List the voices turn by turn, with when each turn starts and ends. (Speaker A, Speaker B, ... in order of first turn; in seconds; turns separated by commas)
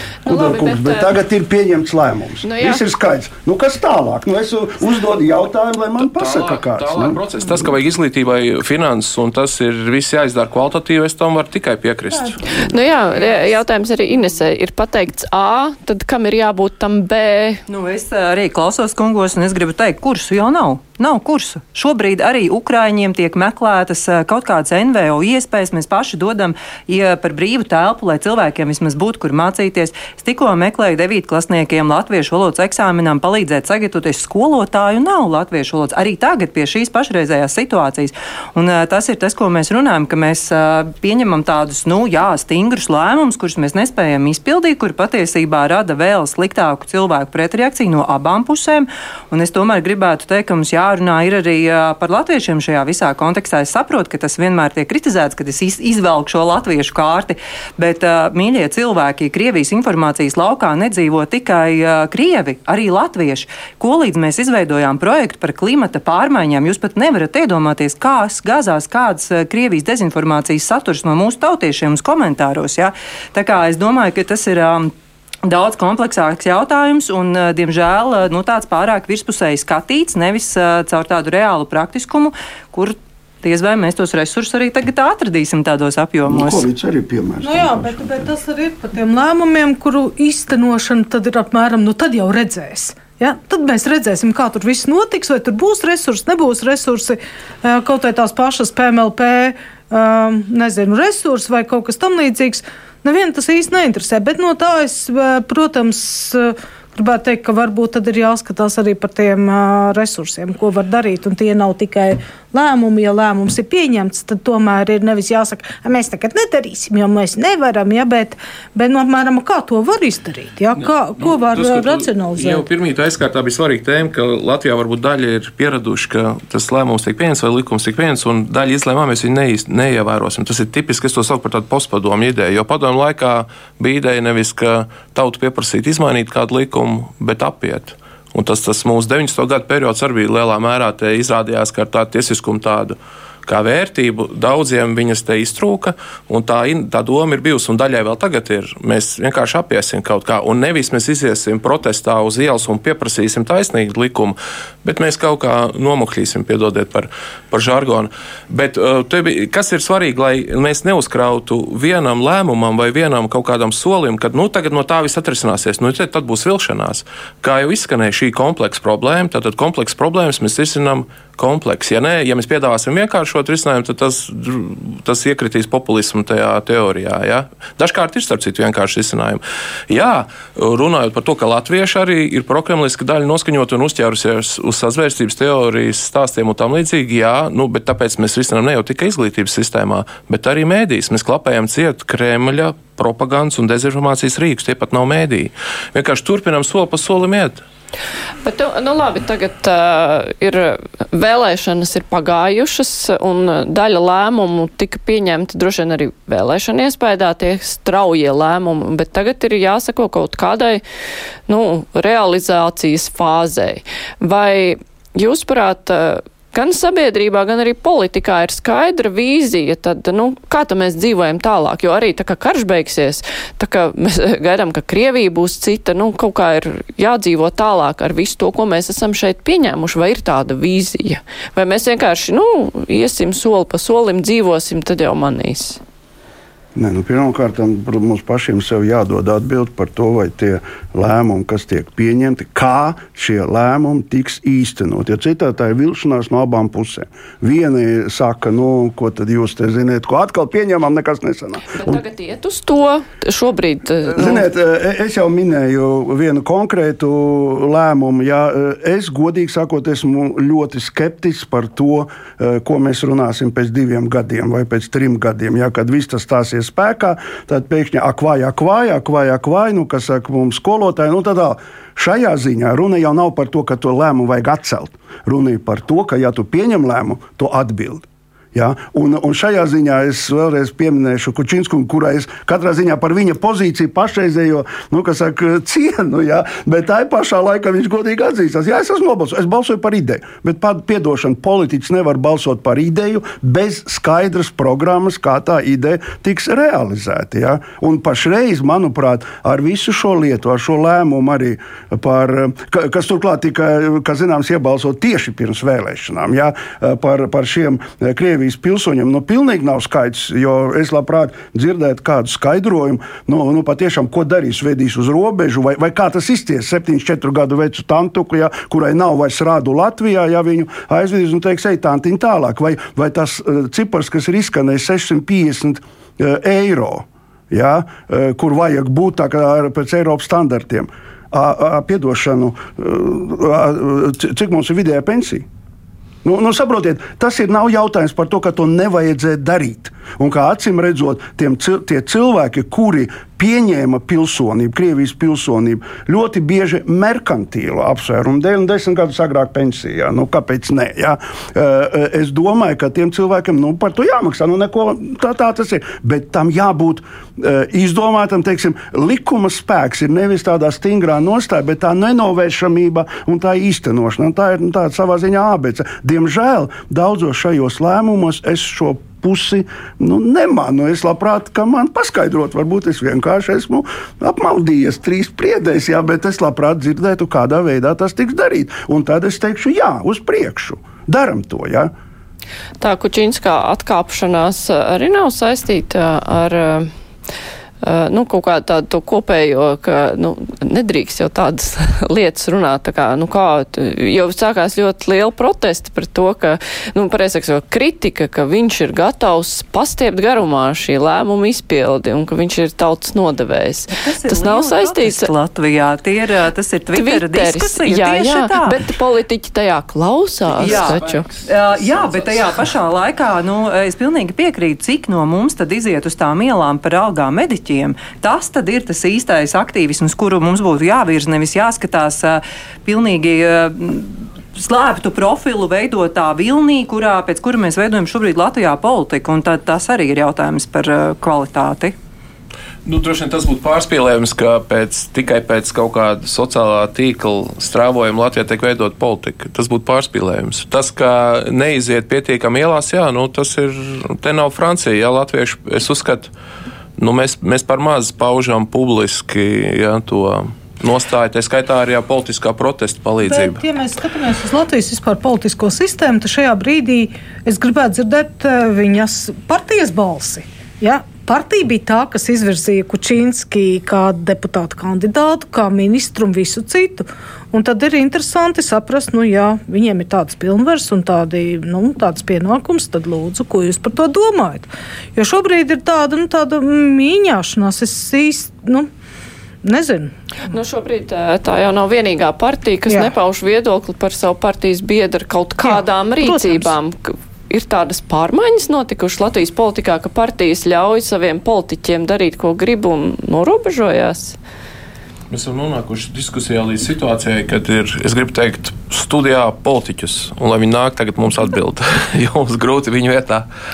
Speaker A: 0.2-1.1, Speaker B: 0.2-7.6, Speaker A: 2.4-2.8, Speaker C: 6.0-12.4, Speaker A: 12.6-17.6, Speaker D: 13.1-13.6, Speaker D: 17.7-74.9, Speaker D: 75.4-86.6, Speaker B: 86.3-88.3, Speaker E: 87.4-122.6, Speaker C: 120.7-197.6, Speaker A: 198.4-210.8, Speaker A: 211.5-235.8, Speaker B: 236.7-252.0, Speaker A: 251.7-254.5, Speaker B: 254.0-335.4, Speaker B: 336.2-381.9, Speaker A: 382.8-386.9, Speaker A: 387.8-405.3, Speaker D: 403.9-408.8, Speaker A: 406.9-411.2, Speaker D: 410.6-431.9, Speaker C: 410.6-412.7, Speaker C: 432.8-446.3, Speaker C: 447.0-453.6, Speaker E: 453.2-478.9, Speaker E: 479.6-480.1, Speaker A: 480.4-494.4, Speaker E: 485.6-486.7, Speaker C: 495.3-503.5